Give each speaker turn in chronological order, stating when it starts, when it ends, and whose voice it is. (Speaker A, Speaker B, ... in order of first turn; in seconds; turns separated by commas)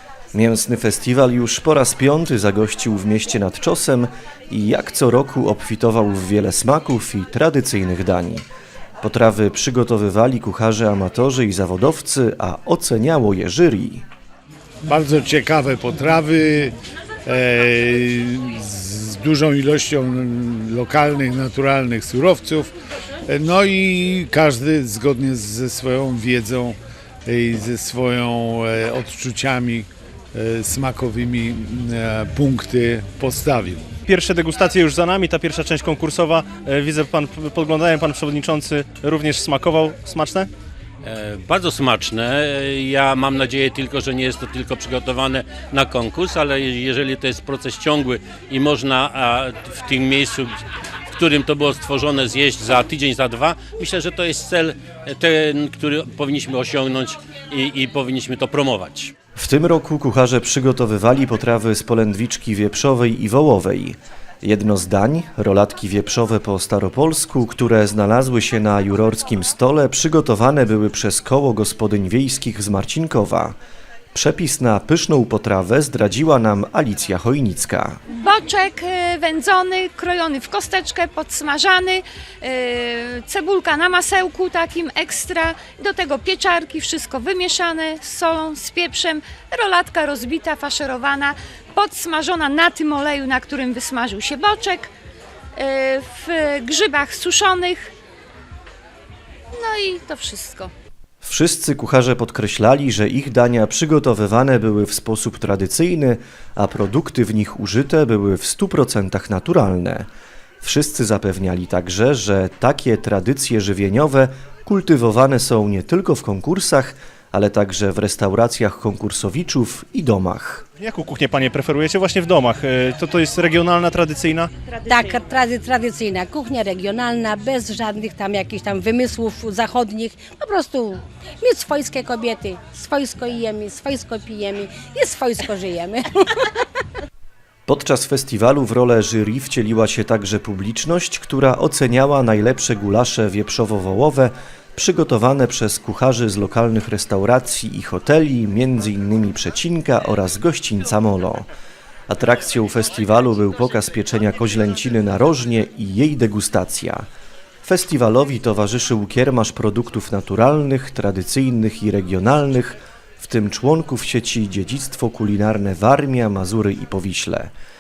Speaker A: 0.3-8.5, Speaker A: 9.0-14.0, Speaker B: 14.8-22.7, Speaker B: 23.3-33.9, Speaker C: 34.1-40.5, Speaker D: 41.0-50.6, Speaker D: 51.1-59.1, Speaker A: 59.4-73.5, Speaker A: 74.1-78.0, Speaker E: 78.1-94.9, Speaker E: 95.5-97.9, Speaker E: 99.5-100.7, Speaker A: 101.2-110.1, Speaker A: 110.6-120.6, Speaker C: 120.8-124.5, Speaker F: 124.8-136.4, Speaker A: 137.7-151.5, Speaker A: 152.1-157.1, Speaker A: 157.6-167.5